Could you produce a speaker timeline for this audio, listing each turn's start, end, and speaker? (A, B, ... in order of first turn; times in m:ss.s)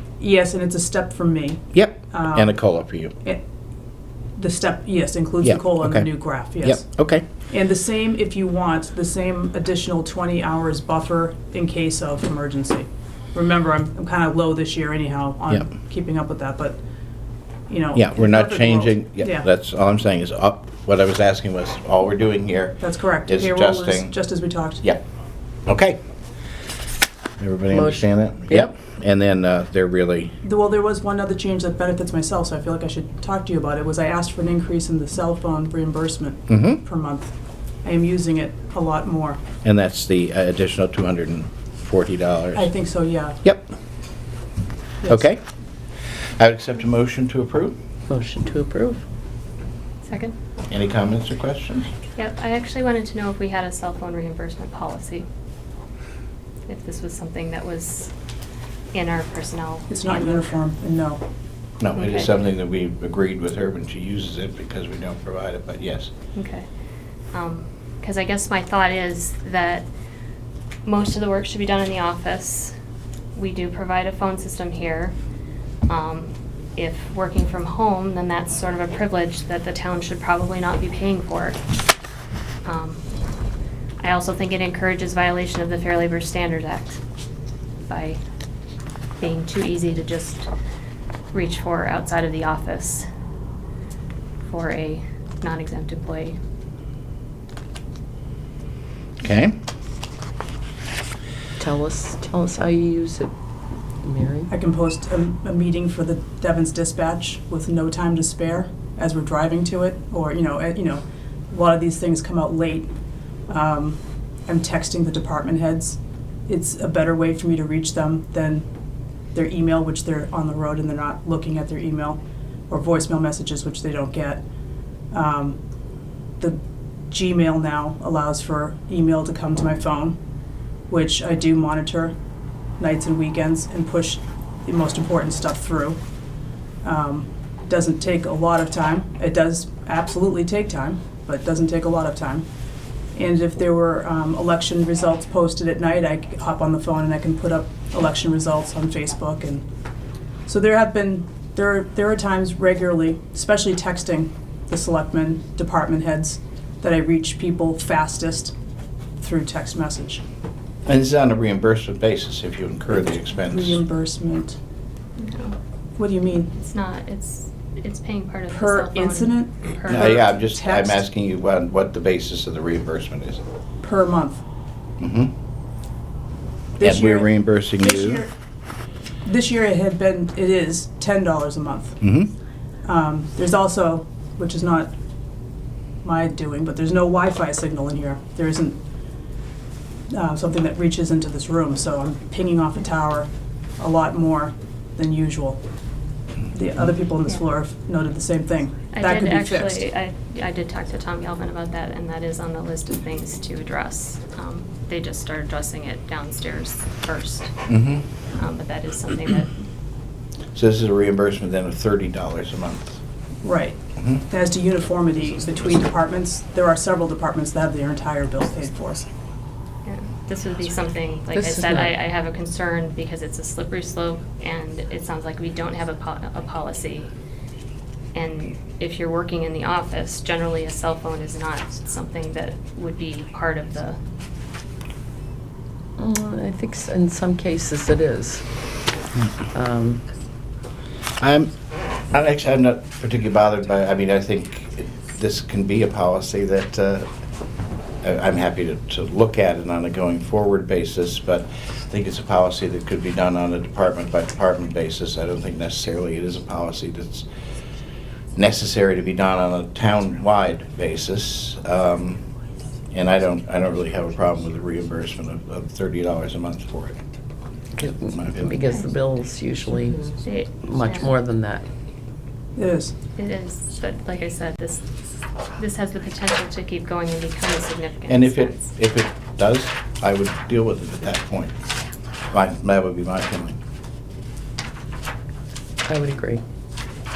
0:00.2-0:02.6 A
0:01.7-0:03.1 B
0:04.4-0:06.9 A
0:05.4-0:07.3 B
0:07.5-0:16.8 A
0:17.7-0:19.5 A
0:17.9-0:24.1 B
0:22.8-0:24.9 A
0:25.7-0:26.0 B
0:27.4-0:30.3 B
0:27.7-0:28.6 C
0:30.4-0:39.4 A
0:36.5-0:36.8 B
0:39.6-0:42.7 B
0:42.6-0:43.4 A
0:45.1-0:45.4 B
0:46.4-0:47.8 B
0:48.1-0:49.0 C
0:50.0-0:50.4 D
0:50.7-0:51.9 B
0:52.2-0:55.3 D
0:56.7-0:58.1 D
0:58.9-1:00.6 D
0:59.9-1:01.2 A
1:01.8-1:06.1 B
1:02.0-1:02.3 D
1:06.4-1:06.7 D
1:07.3-1:09.9 D
1:10.8-1:12.7 D
1:13.4-1:15.1 D
1:15.9-1:21.6 D
1:22.6-1:23.0 D
1:24.0-1:27.0 D
1:27.9-1:28.2 D
1:29.2-1:30.5 D
1:31.3-1:33.1 D
1:34.4-1:36.4 D
1:39.2-1:39.6 B
1:41.6-1:43.3 C
1:44.0-1:44.5 C
1:44.5-1:52.9 A
1:53.5-1:58.7 A
1:59.3-2:04.4 A
2:05.1-2:05.6 A
2:07.1-2:10.2 A
2:10.9-2:12.2 A
2:12.8-2:16.0 A
2:16.8-2:22.5 A
2:23.2-2:29.6 A
2:30.5-2:38.5 A
2:39.2-2:40.2 A
2:40.9-2:43.8 B
2:43.3-2:44.6 A
2:45.2-2:45.6 D
2:46.0-2:46.5 A
2:46.6-2:50.2 D
2:48.5-2:51.0 A
2:49.9-2:53.4 B
2:53.8-2:54.4 A
2:55.0-2:55.3 B
2:56.8-2:58.3 A
2:56.8-2:58.2 B
2:59.2-3:02.0 A
3:02.0-3:02.3 B
3:02.8-3:04.9 A
3:06.0-3:08.8 A
3:10.1-3:15.6 A
3:16.5-3:19.9 A
3:18.9-3:27.6 D
3:27.7-3:28.0 B
3:28.3-3:29.6 D
3:30.6-3:33.0 B
3:33.4-3:39.1 A
3:34.0-3:34.2 B
3:39.8-3:47.1 D
3:41.3-3:41.9 C
3:48.1-3:54.0 D
3:56.0-3:58.4 C
3:59.5-4:00.0 C
4:01.2-4:01.5 B
4:02.1-4:07.1 B
4:08.0-4:17.3 B
4:18.4-4:22.2 B
4:22.9-4:27.0 B
4:27.8-4:30.1 C
4:28.0-4:28.5 B
4:30.2-4:31.1 D
4:30.6-4:31.7 C
4:32.6-4:32.9 A
4:33.2-4:34.8 D
4:35.6-4:38.7 D
4:38.1-4:41.6 B
4:42.3-4:43.6 B
4:45.8-4:46.4 C